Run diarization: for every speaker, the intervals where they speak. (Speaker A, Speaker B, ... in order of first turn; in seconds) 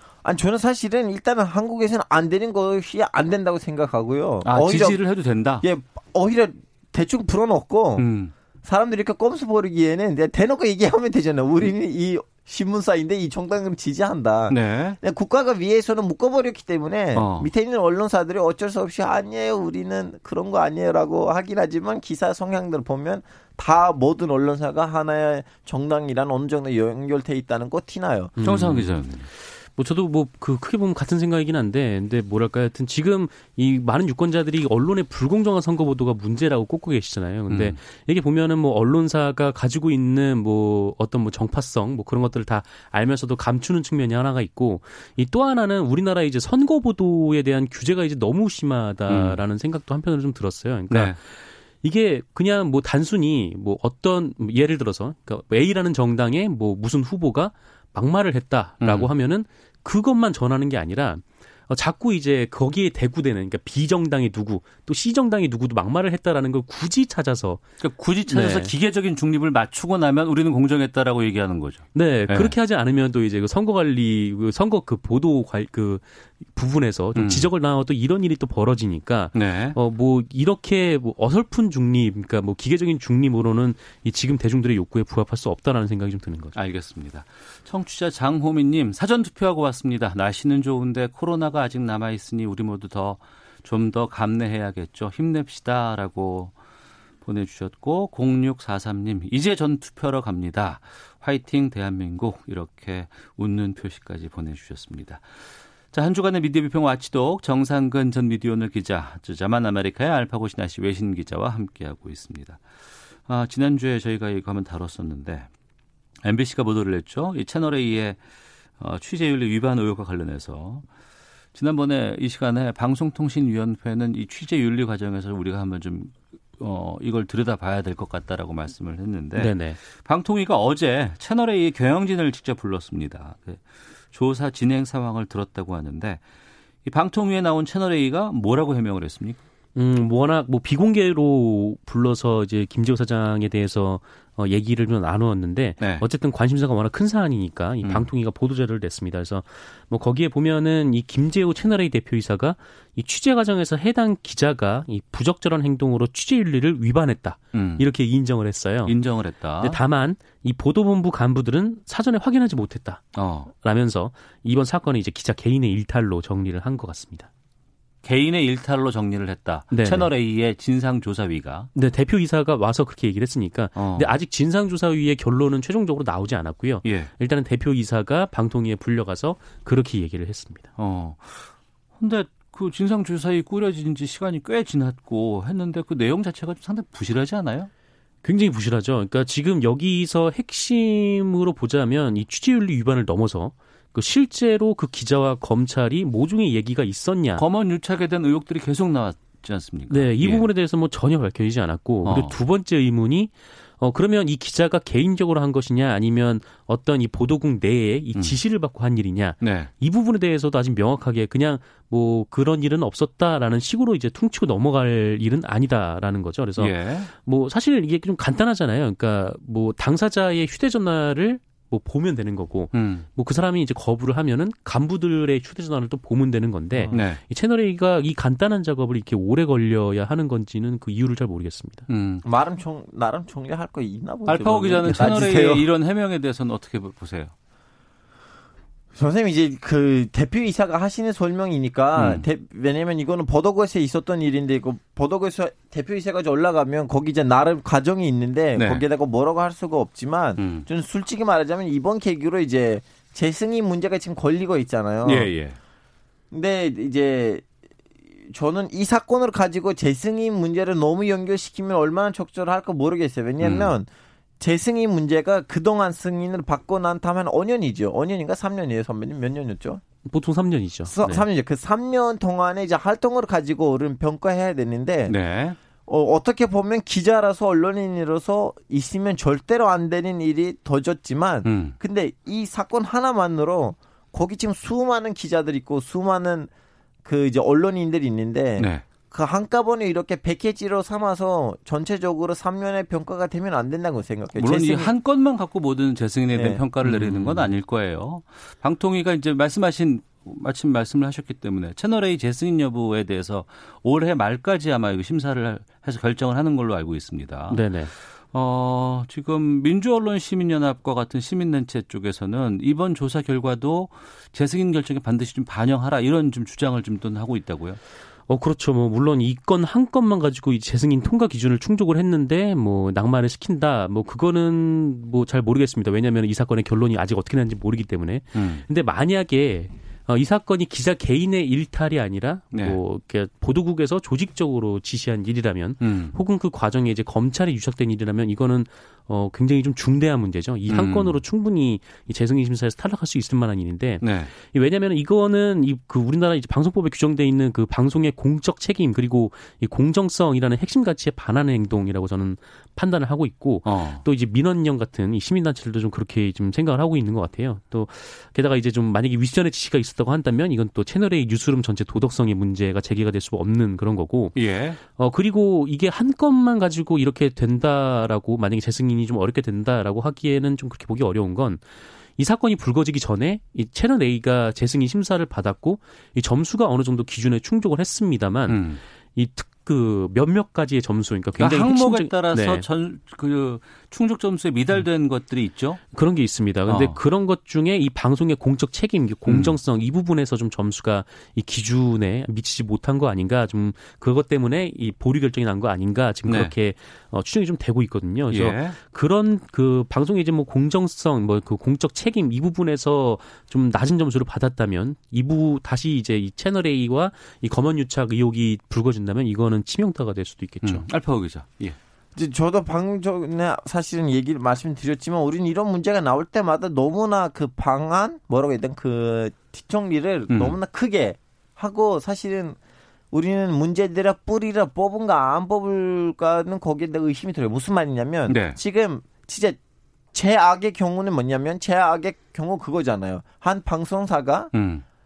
Speaker A: 0.2-5.0, 5.6-8.1, 8.6-28.3, 232.2-235.7, 238.9-255.3, 256.3-257.4, 258.3-263.9, 264.4-269.8, 270.9-275.1, 275.9-286.5, 287.0-294.9, 296.3-297.3, 412.1-422.6, 423.1-429.6, 430.1-434.5
Speaker B: 4.5-5.6, 8.0-8.3, 14.5-15.0, 17.2-17.5, 28.4-29.3, 37.5-37.8, 49.1-49.4, 50.9-51.2, 58.8-59.1, 67.8-72.6, 77.2-77.5, 79.3-79.8, 86.5-96.5, 97.2-105.2, 105.9-112.6, 113.3-115.5, 116.2-118.2, 118.8-120.8, 121.5-136.2, 136.8-139.4, 145.8-146.1, 147.8-148.1, 157.5-157.9, 158.9-159.8, 163.2-163.5, 168.0-171.7, 173.8-174.1, 176.8-177.1, 180.8-187.7, 197.4-200.5, 202.1-202.4, 209.4-209.7, 216.6-217.1, 222.7-223.1, 226.9-227.2, 231.9-232.2, 234.3-237.3, 242.0-242.3, 248.6-248.8, 250.4-250.7, 255.1-255.6, 263.4-263.7, 275.1-275.6, 281.4-281.8, 288.6-288.8, 294.4-317.8, 328.3-328.6, 332.5-332.8, 335.8-336.2, 340.7-341.2, 344.0-344.3, 353.6-354.1, 364.4-364.8, 378.5-378.8, 381.4-385.8, 386.7-387.0, 389.3-389.6, 396.3-396.5, 398.3-398.8, 410.6-411.8, 420.3-420.6, 428.3-428.6, 434.5-434.8
Speaker C: 28.4-67.6, 68.3-68.7, 72.0-86.5, 129.4-129.8, 139.8-158.9, 159.6-167.3, 169.7-170.1, 171.8-180.7, 188.2-197.4, 199.9-231.9, 270.1-271.3, 307.5-307.9, 318.3-371.6, 372.2-382.7, 385.9-410.9